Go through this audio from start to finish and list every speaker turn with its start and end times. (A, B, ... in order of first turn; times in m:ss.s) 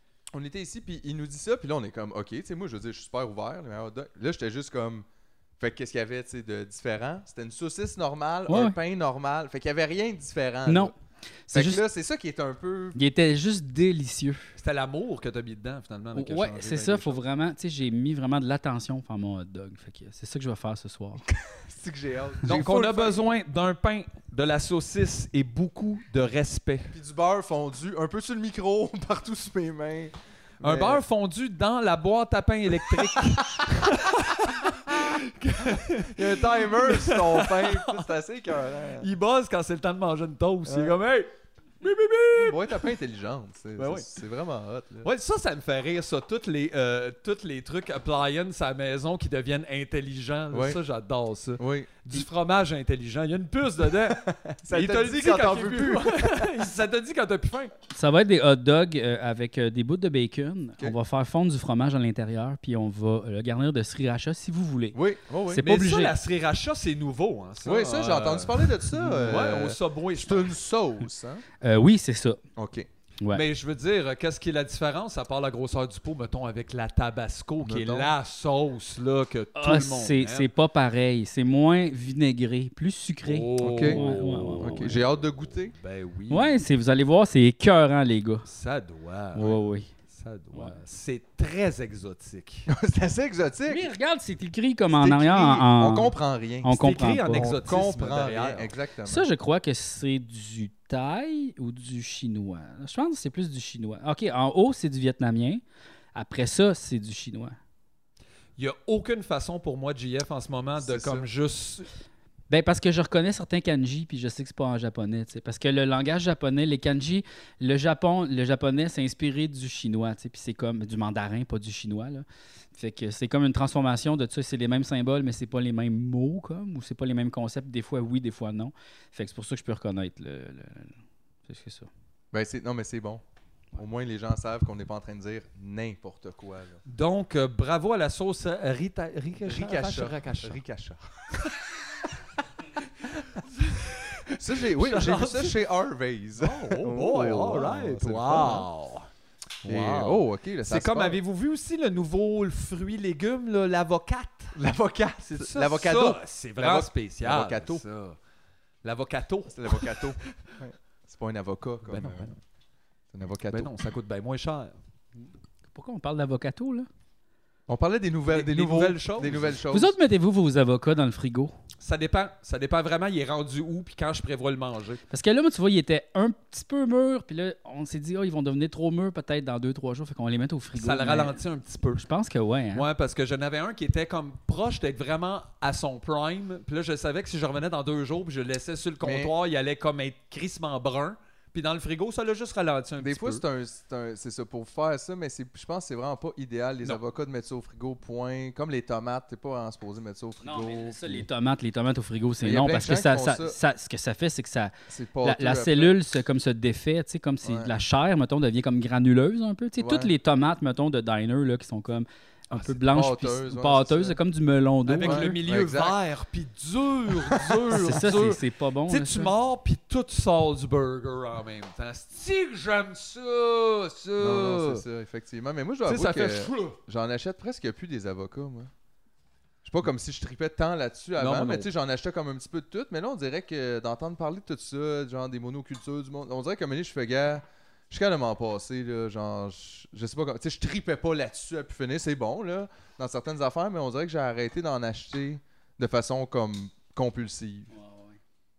0:00.3-0:05.1 A
0:05.6-0:11.0 A
0:08.5-0:08.8 B
0:10.7-0:10.9 B
0:11.5-0:11.8 B
0:11.5-0:13.0 A
0:13.0-0:14.6 B
0:14.6-0:17.2 C
0:16.1-0:21.2 B
0:21.3-0:23.2 A
0:22.4-0:26.9 C
0:26.9-0:31.0 A
0:30.6-0:38.1 C
0:36.0-0:39.1 A
0:39.0-0:41.3 C
0:40.7-0:41.0 A
0:41.8-0:42.9 C
0:42.3-0:45.1 A
0:43.8-0:44.1 C
0:45.0-0:57.7 C
0:50.5-0:50.8 A
0:51.6-0:52.3 A
0:53.9-0:56.6 A
0:57.9-1:06.2 B
1:04.9-1:05.6 A
1:05.6-1:10.6 C
1:07.6-1:11.4 A
1:11.6-1:12.4 B
1:12.6-1:12.9 A
1:13.3-1:20.5 C
1:17.6-1:18.1 A
1:19.6-1:25.0 B
1:23.3-1:26.6 C
1:23.6-1:24.0 A
1:24.6-1:25.8 A
1:26.3-1:28.5 B
1:28.5-1:29.6 C
1:29.4-1:29.9 B
1:30.1-1:32.7 C
1:30.5-1:30.8 B
1:32.7-1:33.9 A
1:33.7-1:37.6 B
1:34.9-1:39.3 A
1:36.8-1:38.7 C
1:39.1-1:45.6 B
1:46.2-1:47.6 B
1:48.6-1:51.9 C
1:50.8-1:51.3 A
1:52.5-2:10.9 B
2:11.5-2:11.9 B
2:12.3-2:13.2 A
2:13.8-2:16.8 A
2:16.9-2:20.6 C
2:19.4-2:21.5 A
2:23.0-2:25.6 C
2:24.4-2:28.7 A
2:26.4-2:29.1 C
2:29.6-2:34.6 C
2:29.6-2:31.2 A
2:34.6-2:37.8 A
2:35.2-2:38.2 C
2:38.8-2:40.3 C
2:39.5-2:42.3 A
2:41.9-2:42.4 C
2:43.1-2:43.7 A
2:43.5-2:44.8 C
2:45.2-2:46.9 B
2:47.7-2:50.0 A
2:48.3-2:49.6 C
2:49.7-2:51.6 B
2:51.8-2:55.0 C
2:55.1-3:01.4 B
3:00.8-3:02.0 C
3:02.0-3:02.9 B
3:02.7-3:13.4 C
3:09.0-3:09.3 A
3:13.0-3:21.3 A
3:20.4-3:35.4 B
3:22.4-3:23.6 A
3:24.9-3:26.0 A
3:27.4-3:27.7 A
3:29.8-3:30.1 A
3:32.5-3:34.2 A
3:34.9-3:44.8 C
3:35.0-3:36.0 A
3:37.1-3:37.7 A
3:37.7-3:39.3 B
3:44.2-3:48.7 A
3:45.9-3:46.8 C
3:49.6-4:07.7 A
3:51.2-3:51.7 C
4:07.7-4:08.2 B